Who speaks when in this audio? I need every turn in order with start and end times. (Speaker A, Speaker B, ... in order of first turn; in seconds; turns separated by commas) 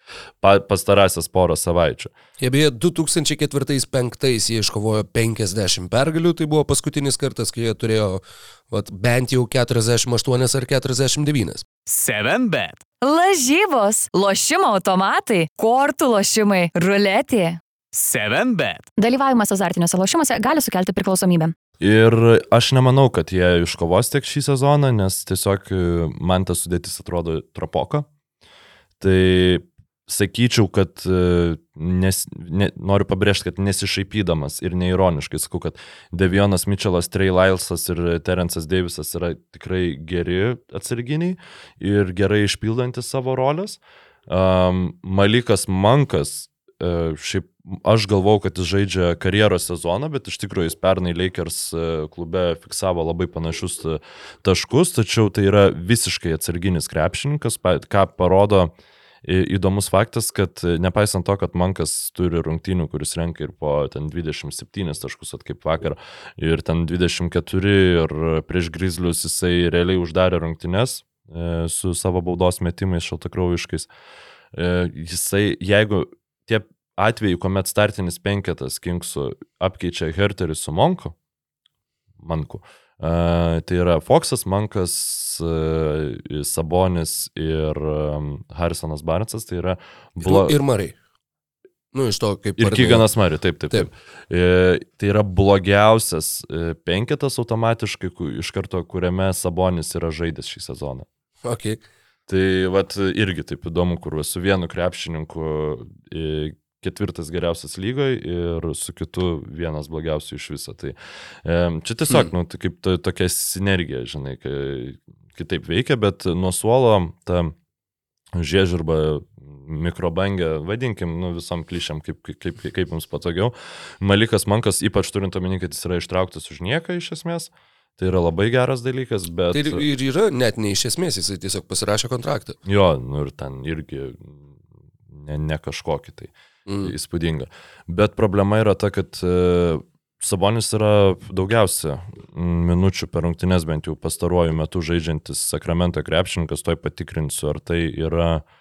Speaker A: 0.4-2.1, Speaker B: 2.4-11.6, Speaker C: 11.9-12.8, Speaker D: 13.0-17.6, Speaker C: 17.9-18.9, Speaker D: 19.0-21.5, Speaker A: 21.8-28.1, Speaker A: 29.0-58.7, Speaker A: 59.2-73.9, Speaker A: 74.5-81.1, Speaker A: 82.2-90.6, Speaker B: 90.2-90.9, Speaker B: 91.9-93.1, Speaker A: 92.6-101.1, Speaker B: 101.4-101.8, Speaker A: 102.3-117.5, Speaker A: 118.3-129.8, Speaker B: 129.5-132.6, Speaker A: 132.6-134.5, Speaker A: 135.1-148.4, Speaker B: 136.7-136.9